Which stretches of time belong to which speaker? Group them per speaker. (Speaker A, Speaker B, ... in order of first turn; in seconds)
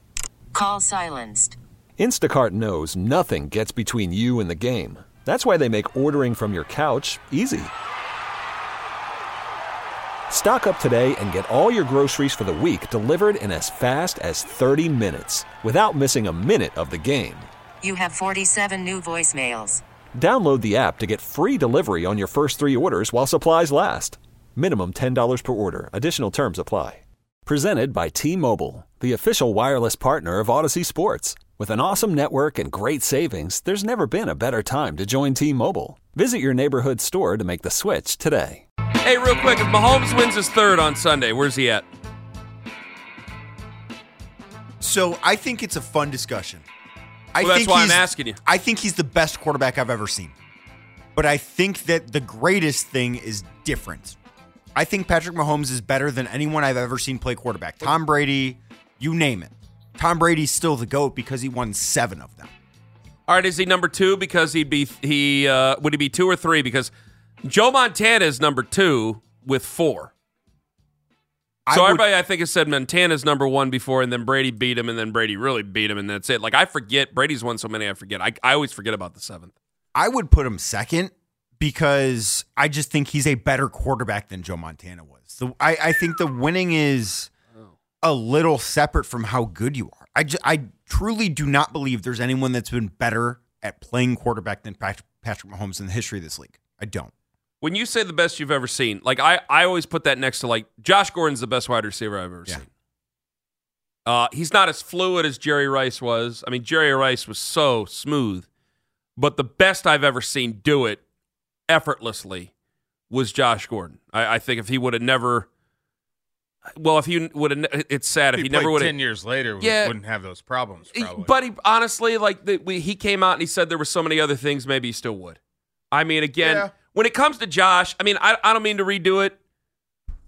Speaker A: 0.5-1.6, 17.8-19.8
Speaker B: 2.0-7.7, 10.3-17.5, 20.1-38.6
Speaker C: 39.0-41.8, 47.4-48.4, 63.3-66.9, 67.4-70.1, 71.7-79.5, 97.6-102.6, 104.0-108.5, 109.2-111.0, 111.7-112.5, 113.1-115.5, 116.8-119.0, 119.6-120.0, 120.9-125.4, 125.9-129.4
Speaker D: 44.8-46.6, 47.3-50.4, 51.1-54.2, 54.7-62.5, 71.7-72.0, 79.9-87.3, 88.0-97.1
Speaker E: 118.3-121.3, 126.4-126.7